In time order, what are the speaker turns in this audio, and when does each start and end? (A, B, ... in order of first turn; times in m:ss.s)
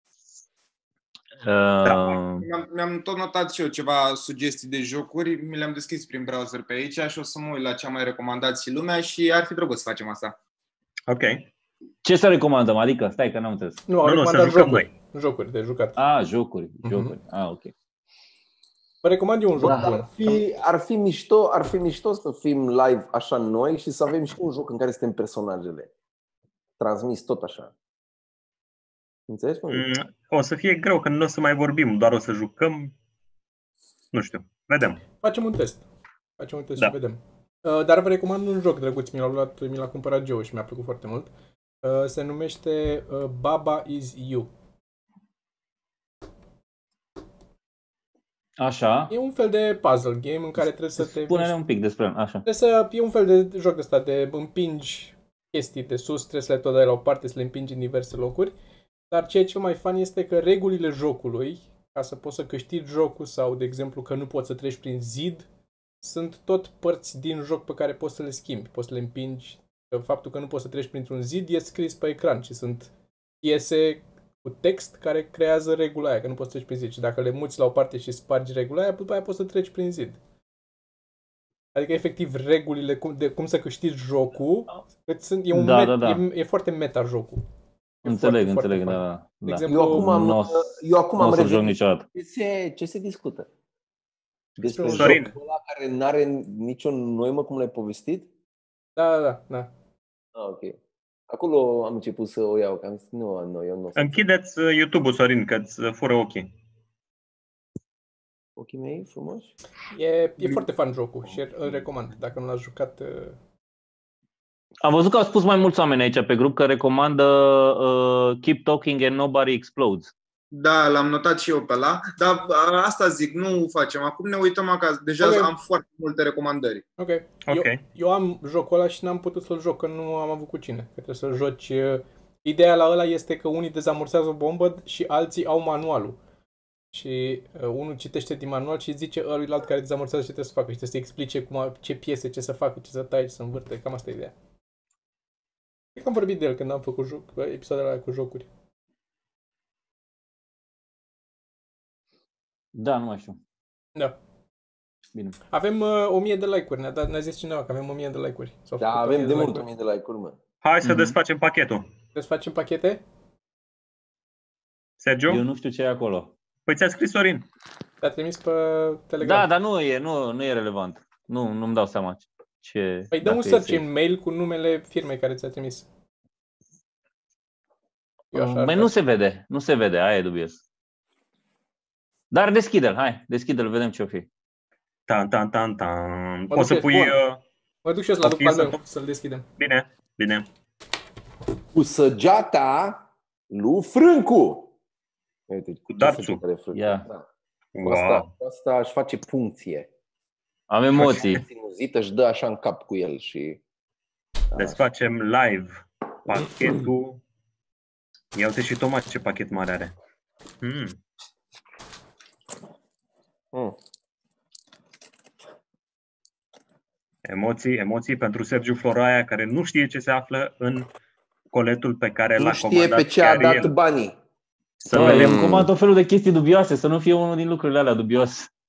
0:01.4-0:02.4 A
0:01.8-0:02.2 B
0:02.4-0:10.4 C
0:11.1-0:11.5 B
0:12.0-0:13.9 A
0:13.9-0:16.0 D
0:14.0-0:14.9 B
0:16.0-0:17.7 A
0:16.8-0:17.1 D
0:19.0-0:20.4 D
0:19.6-0:25.9 E
0:26.8-0:27.7 E
0:29.3-0:29.9 E
0:29.7-0:32.9 B
0:34.1-0:35.0 B
0:35.2-0:35.8 D
0:36.4-0:41.3 D
0:41.8-0:44.5 D
0:48.6-0:49.1 A
0:49.1-0:51.5 D
0:51.0-0:52.4 A
0:52.4-0:58.5 D
0:59.1-1:05.5 D
1:06.0-1:12.9 D
1:13.4-1:20.2 D
1:21.8-1:27.4 D
1:25.5-1:26.2 A
1:28.0-1:30.1 D
1:28.0-1:30.7 A
1:29.7-1:33.5 E
1:31.2-1:32.0 A
1:34.6-1:38.3 E
1:34.6-1:35.2 D
1:34.8-1:35.3 B
1:39.0-1:39.7 D
1:40.4-1:40.8 E
1:41.3-1:44.2 E
1:44.0-1:46.5 B
1:48.6-1:49.5 E
1:49.9-1:53.4 D
1:54.8-2:00.1 A
2:00.5-2:06.8 C
2:05.2-2:05.5 D
2:07.0-2:16.2 D
2:07.5-2:07.8 B
2:16.9-2:24.3 D
2:26.0-2:28.5 D
2:32.7-2:33.4 A
2:35.5-2:39.7 D
2:38.8-2:40.4 E
2:40.6-2:41.9 B
2:40.8-2:41.2 A
2:42.2-2:43.0 D
2:45.0-2:45.4 B
2:45.3-2:46.3 A
2:46.7-2:47.5 B
2:48.0-2:49.5 D
2:49.2-2:53.8 A
2:53.1-2:55.9 D
2:58.3-2:58.9 D
2:58.3-3:00.6 A
3:02.3-3:04.3 A
3:05.1-3:07.4 B
3:06.5-3:07.2 D
3:07.8-3:09.5 D
3:08.2-3:08.8 B
3:09.6-3:10.5 B
3:11.7-3:14.7 E
3:15.5-3:17.3 E
3:15.9-3:16.4 B
3:16.7-3:17.1 A
3:17.8-3:18.3 B
3:17.8-3:19.9 E
3:20.7-3:21.4 A
3:21.0-3:23.6 E
3:24.5-3:24.8 E
3:24.6-3:27.2 B
3:28.3-3:30.0 B
3:30.6-3:31.0 B
3:37.2-3:40.9 B
3:41.5-3:43.7 B
3:42.4-3:44.2 E
3:44.8-3:45.6 B
3:44.9-3:48.5 A
3:45.0-3:45.7 E